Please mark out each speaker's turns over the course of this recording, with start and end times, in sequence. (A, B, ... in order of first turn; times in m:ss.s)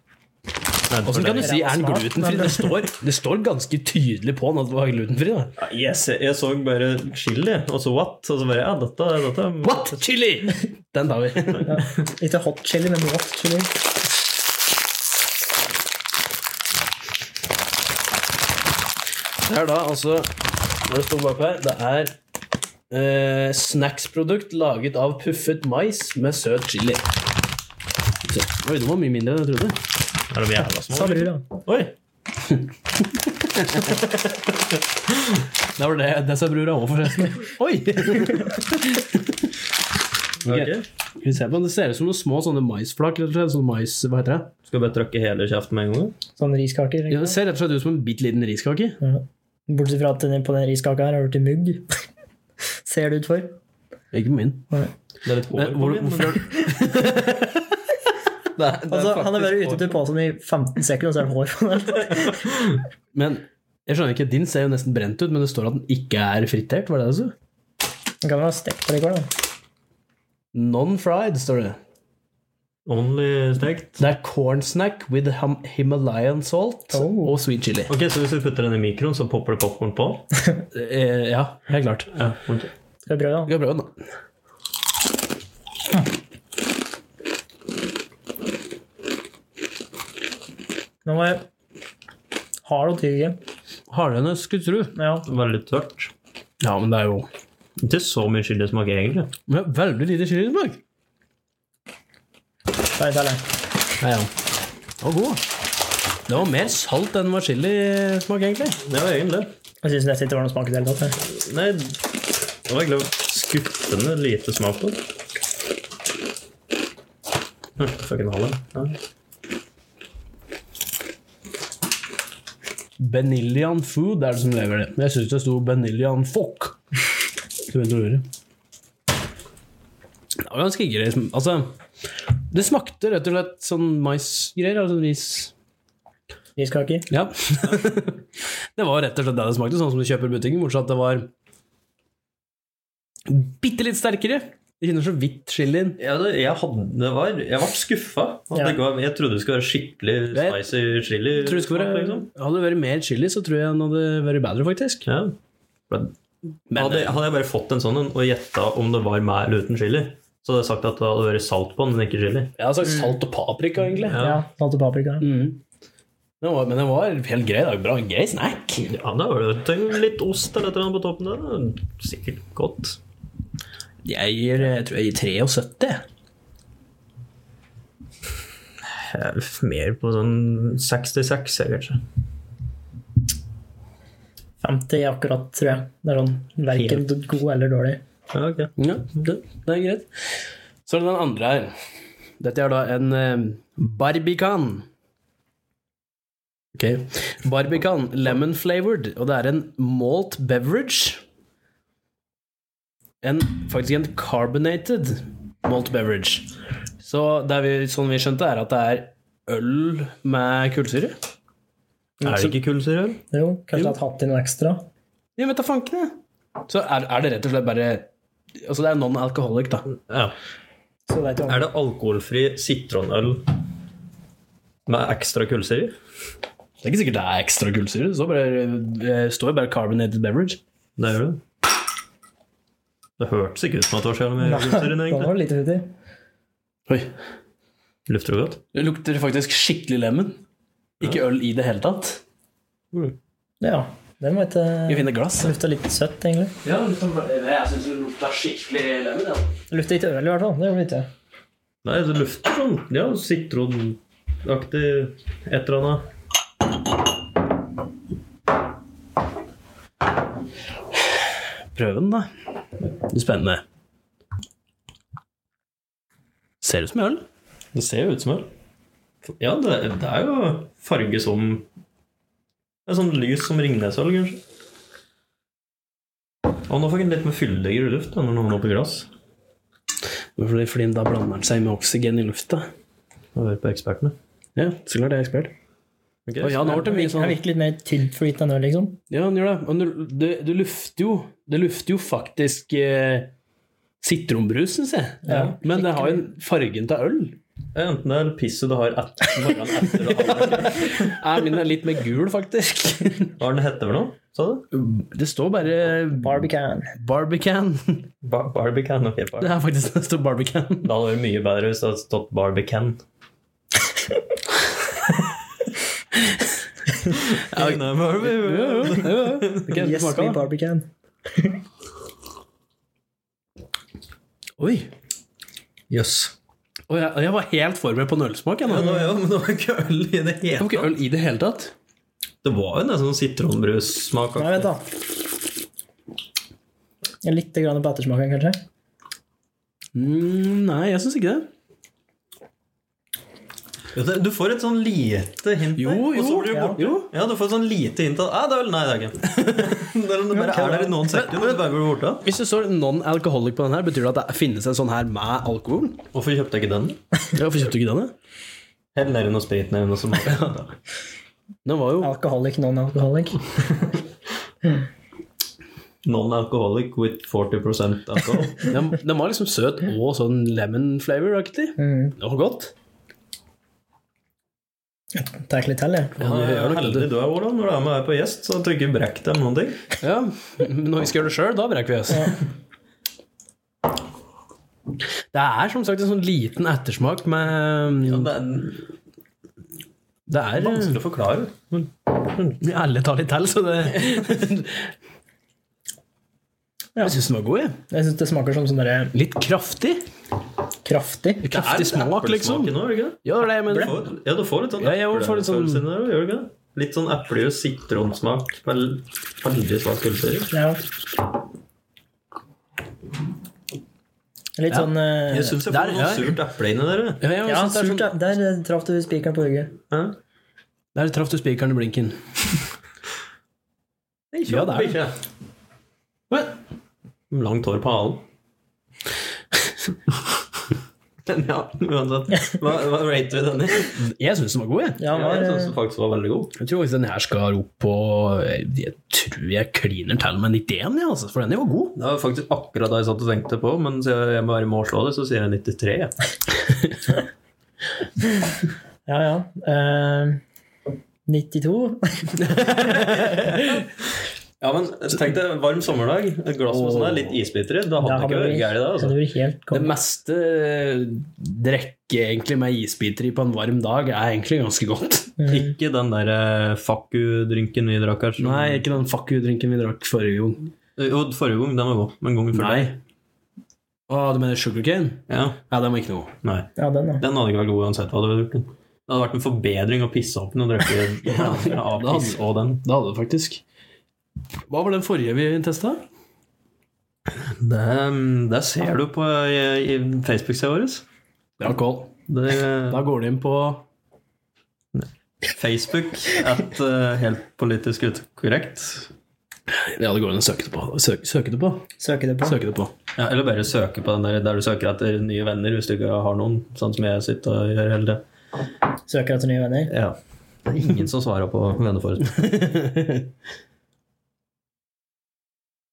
0:00.9-0:01.5 A
0:01.0-0:05.5 B
0:01.4-0:02.7 C
0:05.6-0:10.0 A
0:09.6-0:11.8 B
0:11.6-0:13.7 C
0:19.4-0:22.1 B
0:22.9-0:27.0 B
0:28.2-0:29.8 B
0:30.3-0:31.7 A
0:30.8-0:31.4 C
0:32.4-0:34.1 B
0:35.8-0:39.5 B
0:40.4-0:44.5 B
0:40.4-0:40.8 A
0:44.7-0:46.2 A
0:46.4-0:47.4 C
0:47.1-0:49.0 B
0:49.0-0:51.9 C
0:52.8-0:53.5 C
0:54.1-0:54.7 B
0:55.2-0:56.5 A
0:55.5-0:57.5 B
0:58.5-0:59.9 A
0:58.9-1:02.5 C
1:02.4-1:02.7 A
1:03.1-1:07.3 B
1:08.2-1:09.3 C
1:10.5-1:11.8 B
1:12.8-1:14.0 A
1:14.0-1:17.9 B
1:16.9-1:17.3 C
1:17.9-1:20.3 A
1:20.7-1:22.3 B
1:22.2-1:22.7 A
1:23.1-1:23.5 C
1:23.5-1:23.9 B
1:31.0-1:31.4 C
1:32.6-1:33.4 C
1:33.9-1:34.9 B
1:35.0-1:35.2 C
1:35.2-1:36.1 A
1:36.6-1:37.3 B
1:37.8-1:39.3 A
1:39.5-1:40.8 B
1:43.0-1:43.4 C
1:44.0-1:44.3 B
1:45.0-1:45.4 B
1:46.3-1:48.8 B
1:48.8-1:49.5 A
1:49.8-1:51.2 C
1:51.2-1:52.0 A
1:52.6-1:55.0 A
1:57.8-1:59.0 A
2:03.0-2:06.8 B
2:07.7-2:08.2 B
2:10.4-2:11.8 B
2:12.5-2:15.5 B
2:16.6-2:17.1 C
2:17.1-2:18.2 B
2:18.8-2:21.3 B
2:23.3-2:26.0 B
2:26.0-2:32.3 A
2:30.3-2:30.6 B
2:31.4-2:35.0 B
2:35.0-2:35.4 A
2:35.9-2:36.2 A
2:36.7-2:37.2 B
2:36.7-2:42.5 A
2:42.6-2:44.2 B
2:44.1-2:44.4 A
2:44.1-2:45.3 C
2:45.2-2:45.6 B
2:46.4-2:48.9 B
2:48.8-2:53.0 A
2:54.0-2:56.0 B
2:58.8-3:02.0 A
3:04.6-3:08.0 C
3:06.7-3:07.1 A
3:08.3-3:08.7 A
3:08.8-3:10.1 B
3:10.9-3:11.7 B
3:12.4-3:14.8 B
3:16.7-3:21.2 B
3:23.2-3:26.5 B
3:27.0-3:31.2 B
3:32.2-3:33.2 A
3:32.2-3:32.5 C
3:33.3-3:34.8 C
3:35.4-3:36.2 B
3:36.7-3:38.1 B
3:38.6-3:39.8 B
3:39.9-3:40.3 A
3:41.1-3:41.6 C
3:41.5-3:43.5 A
3:44.8-3:46.0 A
3:46.8-3:50.6 B
3:51.0-3:51.4 A
3:53.2-3:55.3 A
3:54.4-3:55.9 C
3:56.9-3:57.1 B
3:58.1-3:58.6 A
3:58.7-4:00.4 B
4:01.0-4:02.2 B
4:03.6-4:06.5 C
4:04.9-4:05.5 B
4:06.6-4:09.5 B
4:09.7-4:11.1 C
4:11.8-4:16.1 A
4:21.7-4:22.3 B
4:23.0-4:23.6 B
4:26.6-4:27.2 B
4:27.7-4:28.5 A
4:29.3-4:31.6 A
4:32.8-4:34.4 A
4:36.7-4:39.1 A
4:40.4-4:42.7 B
4:43.3-4:44.1 A
4:44.6-4:45.5 B
4:46.3-4:46.8 A
4:46.4-4:47.4 B
4:46.7-4:49.0 C
4:49.1-4:53.3 B
4:54.0-4:57.4 B
4:55.3-4:56.2 C
4:55.3-4:55.6 A
4:57.7-5:01.2 A
5:00.4-5:03.3 B
5:03.4-5:04.7 A
5:04.7-5:08.1 B
5:06.2-5:06.9 C
5:08.2-5:09.5 A
5:09.4-5:10.9 B
5:10.8-5:13.0 A
5:17.1-5:19.7 A
5:17.5-5:20.4 B
5:19.7-5:21.6 C
5:24.6-5:24.9 B
5:25.9-5:26.3 A
5:26.9-5:29.0 B
5:28.7-5:30.9 A
5:30.6-5:31.7 B
5:32.4-5:34.7 A
5:34.4-5:34.8 C
5:37.2-5:38.6 C
5:39.9-5:41.5 B
5:43.9-5:52.2 A
5:45.8-5:47.1 B
5:46.5-5:46.8 C
5:50.3-5:51.0 C
5:51.1-5:51.7 B
5:52.2-5:56.0 B
5:56.1-5:57.0 A
5:57.3-5:58.1 B
5:58.9-6:00.7 A
6:01.6-6:02.1 B
6:02.0-6:03.4 C
6:06.0-6:08.7 A
6:08.7-6:12.7 B
6:11.8-6:12.1 C
6:15.1-6:16.1 C
6:16.2-6:19.8 A
6:16.2-6:17.1 B
6:20.0-6:22.4 B
6:25.3-6:28.3 B
6:28.0-6:28.8 A
6:30.3-6:31.0 B
6:30.6-6:32.6 A
6:32.6-6:34.9 B
6:37.0-6:37.8 B
6:37.9-6:39.1 C
6:39.1-6:40.0 B
6:40.8-6:41.5 C
6:41.4-6:44.0 B
6:41.5-6:50.5 A
6:44.8-6:45.8 B
6:50.5-6:50.8 C
6:54.6-6:55.6 C
6:55.3-6:57.2 A
6:55.6-6:56.4 B
6:57.2-6:58.1 B
6:57.4-6:59.7 C
6:59.9-7:00.2 A
7:00.9-7:02.2 B
7:04.3-7:05.1 A
7:04.5-7:05.0 B
7:06.3-7:06.6 B
7:07.3-7:08.2 A
7:11.2-7:14.0 A
7:14.0-7:15.0 B
7:15.0-7:15.7 C
7:15.1-7:16.5 A
7:16.6-7:22.0 B
7:22.0-7:26.1 A
7:29.1-7:30.4 C
7:31.3-7:32.8 C
7:32.5-7:33.3 B
7:34.6-7:39.2 A
7:36.7-7:37.3 B
7:38.0-7:39.9 C
7:39.7-7:45.4 B
7:45.4-7:45.7 C
7:45.5-7:48.8 A
7:48.4-7:50.7 B
7:51.0-7:52.9 A
7:52.5-7:53.0 B
7:54.1-7:56.3 B
7:55.3-7:55.6 A
7:56.4-8:02.8 A
7:56.8-7:57.2 C
8:01.3-8:03.6 B
8:04.7-8:06.0 B
8:07.3-8:11.0 A
8:11.6-8:12.2 B
8:12.3-8:13.0 A
8:12.9-8:13.8 B
8:14.9-8:19.1 A
8:19.7-8:21.9 B
8:22.0-8:22.6 C
8:22.4-8:22.9 B
8:23.2-8:28.2 A
8:29.1-8:29.9 C
8:29.9-8:32.5 A
8:32.5-8:33.2 B